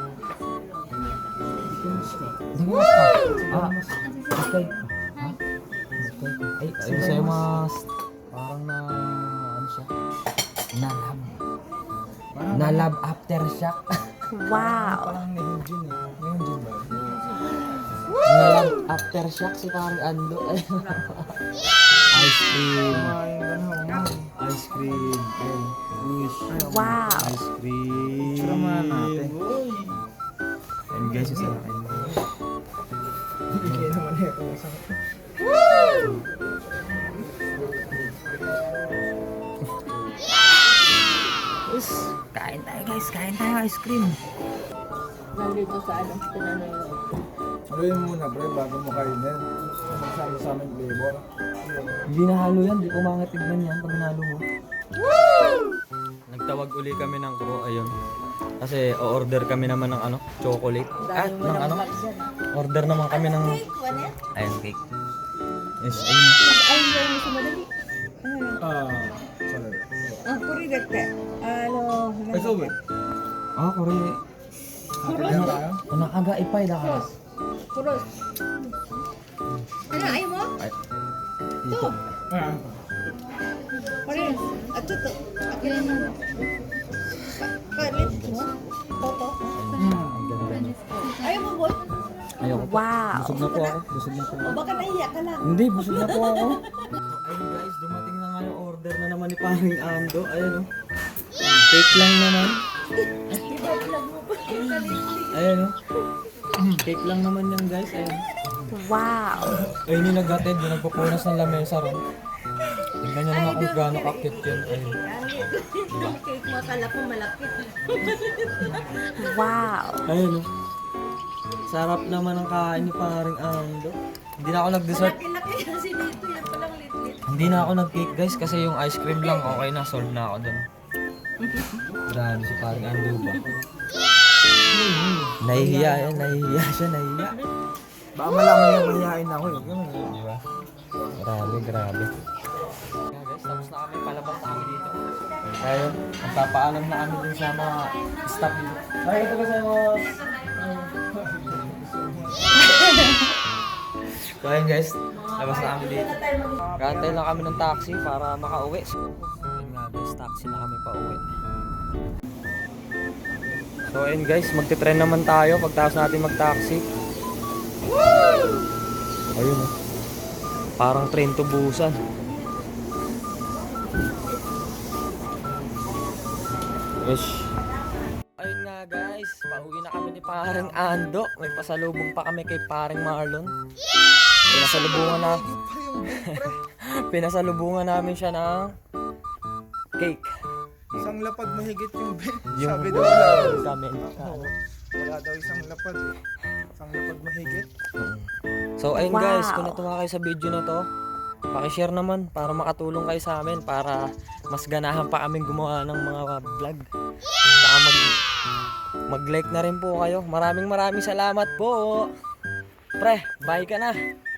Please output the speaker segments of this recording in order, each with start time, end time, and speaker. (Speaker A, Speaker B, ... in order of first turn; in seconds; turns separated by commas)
Speaker A: 1.6-2.4, Speaker B: 2.5-3.7, Speaker A: 3.2-4.1, Speaker B: 4.3-5.4, Speaker B: 6.0-9.9, Speaker A: 6.8-7.6, Speaker B: 10.7-11.4, Speaker A: 12.3-12.9, Speaker B: 12.5-13.9, Speaker C: 14.3-15.2, Speaker A: 14.5-17.0, Speaker B: 18.2-21.3, Speaker B: 22.1-23.1, Speaker A: 22.9-24.3, Speaker B: 23.9-29.4, Speaker C: 26.5-27.3, Speaker A: 28.2-30.0, Speaker B: 30.9-32.2, Speaker A: 31.0-32.2, Speaker A: 33.5-34.9, Speaker B: 33.6-33.9, Speaker A: 37.4-38.1, Speaker B: 41.7-44.2, Speaker D: 45.3-47.0, Speaker A: 47.7-51.9, Speaker B: 52.1-54.4, Speaker B: 56.3-57.9, Speaker B: 58.6-61.9, Speaker D: 61.0-62.3, Speaker B: 62.5-63.6, Speaker D: 63.0-64.2, Speaker B: 64.3-64.8, Speaker B: 65.8-66.4, Speaker D: 66.4-67.7, Speaker D: 68.2-68.6, Speaker A: 68.6-70.2, Speaker D: 70.2-72.7, Speaker A: 72.3-72.7, Speaker B: 73.6-74.2, Speaker A: 75.0-75.8, Speaker D: 75.0-75.7, Speaker B: 75.2-77.1, Speaker D: 76.8-77.1, Speaker D: 77.7-78.1, Speaker D: 79.9-80.5, Speaker B: 79.9-80.7, Speaker B: 81.6-82.0, Speaker D: 81.7-82.0, Speaker A: 82.3-82.8, Speaker D: 84.0-86.5, Speaker D: 87.2-89.6, Speaker B: 87.8-88.5, Speaker B: 89.5-90.8, Speaker A: 89.7-90.3, Speaker D: 91.0-91.9, Speaker B: 92.4-94.6, Speaker C: 92.5-93.5, Speaker D: 93.4-93.8, Speaker D: 94.3-96.7, Speaker B: 95.4-100.7, Speaker B: 101.7-102.6, Speaker D: 103.0-105.5, Speaker B: 105.3-105.8, Speaker B: 106.8-108.3, Speaker C: 108.7-109.6, Speaker B: 109.8-112.0, Speaker B: 113.0-115.0, Speaker D: 113.3-119.4, Speaker B: 115.9-116.2, Speaker C: 119.2-120.1, Speaker B: 120.0-120.5, Speaker B: 121.7-125.2, Speaker D: 124.9-127.3, Speaker B: 127.3-130.6, Speaker D: 129.2-129.6, Speaker D: 131.4-131.8, Speaker B: 132.1-133.5, Speaker A: 134.7-136.4, Speaker B: 135.4-137.4, Speaker A: 138.1-140.2, Speaker B: 139.6-140.4, Speaker B: 141.2-142.1, Speaker B: 143.1-145.0, Speaker B: 145.6-150.2, Speaker A: 150.6-152.6, Speaker B: 154.0-156.2, Speaker D: 155.3-156.9, Speaker B: 156.8-161.2, Speaker A: 157.2-157.5, Speaker B: 163.9-166.8, Speaker B: 169.3-169.7, Speaker B: 170.8-172.0, Speaker B: 177.0-177.5, Speaker B: 178.4-183.5, Speaker A: 184.5-186.6, Speaker B: 184.5-185.4, Speaker B: 186.2-188.7, Speaker B: 190.0-190.3, Speaker A: 190.9-196.2, Speaker B: 192.5-194.5, Speaker A: 196.8-197.7, Speaker B: 198.0-198.3, Speaker B: 198.8-200.8, Speaker C: 198.9-199.8, Speaker B: 201.5-206.9, Speaker B: 207.6-208.2, Speaker B: 209.1-212.1, Speaker B: 213.0-214.0